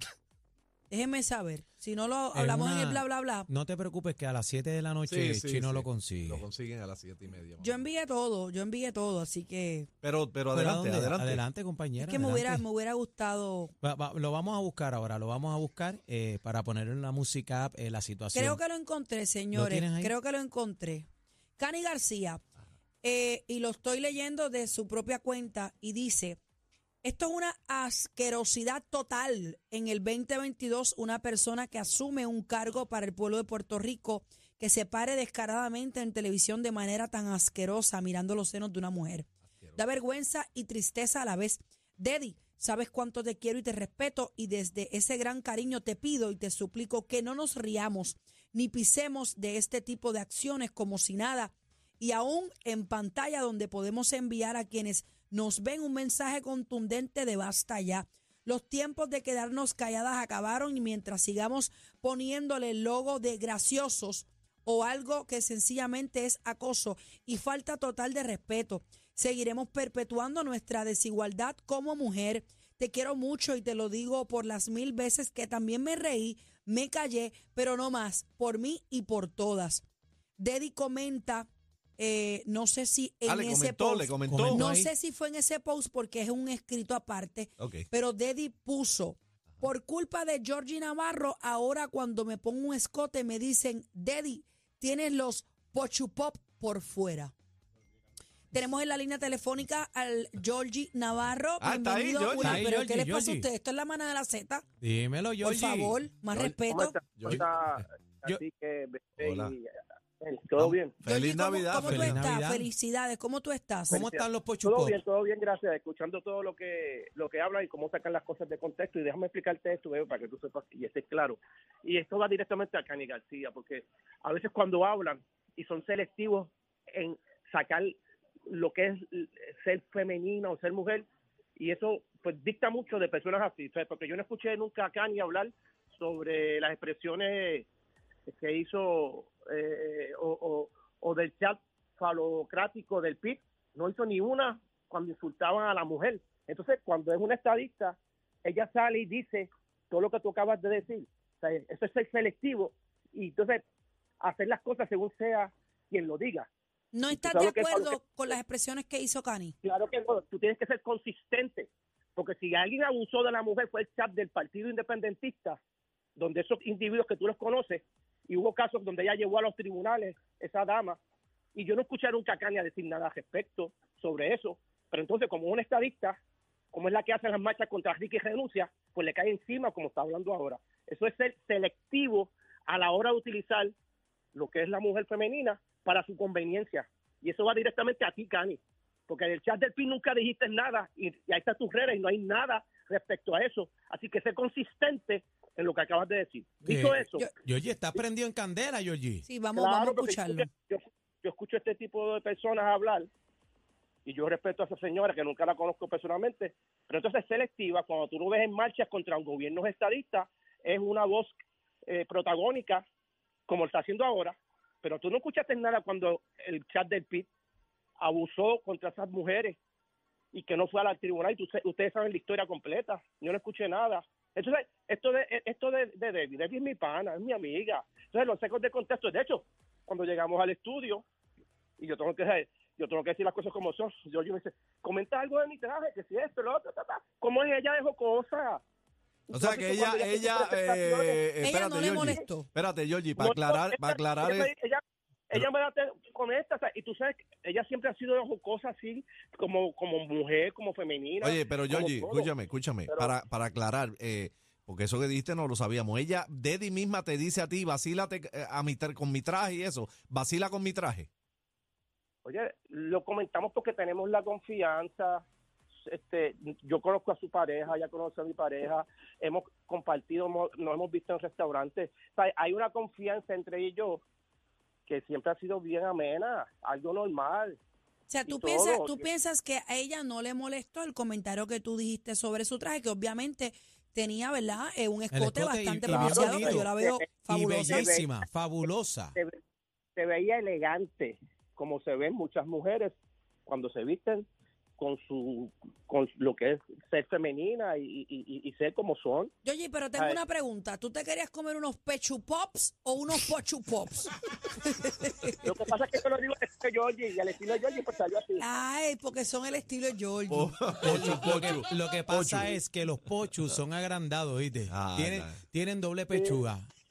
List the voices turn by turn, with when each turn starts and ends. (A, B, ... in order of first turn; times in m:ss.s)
0:00.9-0:03.5 A
0:02.3-0:06.4 B
0:05.1-0:07.8 C
0:07.6-0:09.9 A
0:10.0-0:11.4 C
0:10.5-0:12.6 B
0:12.0-0:13.7 A
0:13.8-0:18.6 B
0:18.3-0:22.4 A
0:19.5-0:20.1 B
0:23.0-0:26.4 A
0:27.0-1:19.8 A
1:20.4-1:37.3 A
1:23.2-1:24.7 C
1:24.3-1:24.9 B
1:27.6-1:27.9 C
1:38.5-1:44.6 A
1:41.6-1:42.7 C
1:42.4-1:43.5 B
1:44.8-1:46.0 B
1:45.4-1:47.0 A
1:46.7-1:51.0 D
1:47.2-1:47.8 C
1:49.2-1:49.5 C
1:50.5-1:52.2 C
1:51.0-1:54.0 A
1:51.8-1:52.7 B
1:53.9-1:55.0 B
1:53.9-2:17.6 D
2:18.3-2:33.6 D
2:34.2-2:36.5 D
2:36.9-2:39.6 A
2:37.1-2:38.0 D
2:39.6-2:45.6 D
2:46.2-2:51.0 D
2:51.5-2:56.2 D
2:56.7-3:03.7 D
3:04.3-3:17.2 D
3:16.6-3:19.3 B
3:19.2-3:20.4 A
3:19.6-3:23.1 D
3:24.0-3:31.4 D
3:31.9-3:32.8 D
3:33.5-3:37.3 D
3:38.0-3:39.6 D
3:40.3-3:51.0 D
3:51.8-3:58.6 D
3:59.3-4:01.2 D
3:59.3-4:04.5 C
4:01.4-4:02.5 A
4:03.2-4:12.3 D
4:11.2-4:21.1 C
4:22.2-4:25.2 D
4:25.8-4:34.0 D
4:34.9-4:37.6 D
4:38.1-4:48.0 A
4:38.3-4:39.0 D
4:45.1-4:46.7 B
4:45.9-4:48.0 D
4:47.3-4:49.2 B
4:50.0-4:54.3 D
4:54.8-4:59.3 D
4:59.4-5:05.5 A
5:05.4-5:08.4 D
5:08.4-5:11.1 A
5:10.3-5:12.5 C
5:10.8-5:16.6 B
5:14.7-5:15.4 C